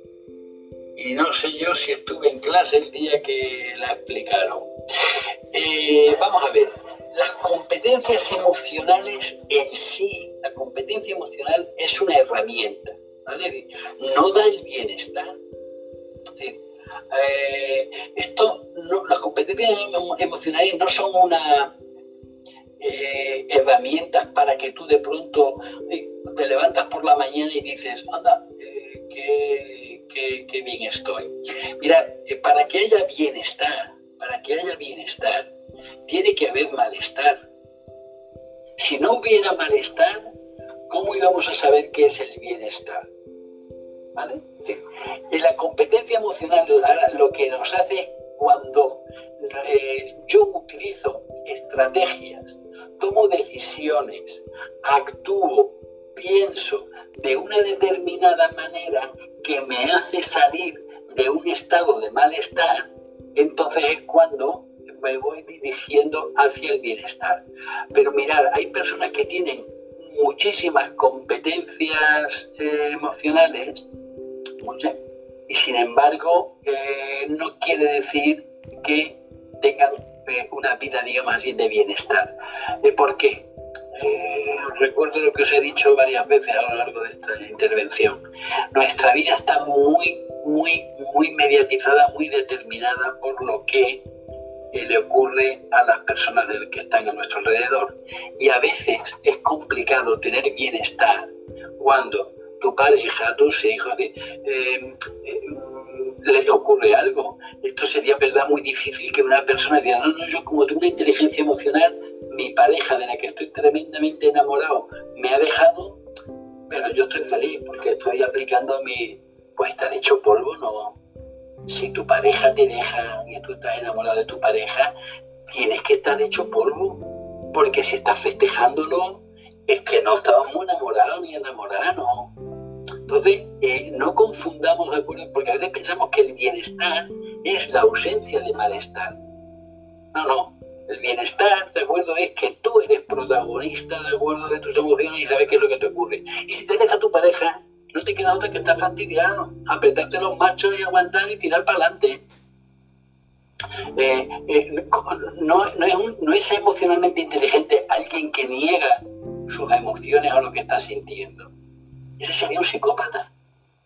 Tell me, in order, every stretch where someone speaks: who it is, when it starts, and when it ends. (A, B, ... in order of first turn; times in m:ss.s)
0:01.0-0:04.7 A
0:05.5-0:15.3 A
0:17.1-0:21.7 A
0:22.8-0:35.5 A
0:36.0-0:37.4 A
0:38.8-0:40.3 A
0:40.9-0:43.1 A
0:44.2-1:13.9 A
1:14.6-1:15.0 A
1:15.5-1:22.3 A
1:22.8-1:28.2 A
1:28.7-1:34.0 A
1:34.7-1:56.0 A
1:56.7-2:01.0 A
2:01.7-2:04.9 A
2:05.5-2:07.0 A
2:07.5-2:12.3 A
2:13.1-2:19.2 A
2:20.1-2:32.2 A
2:33.9-2:41.5 A
2:42.2-2:43.3 A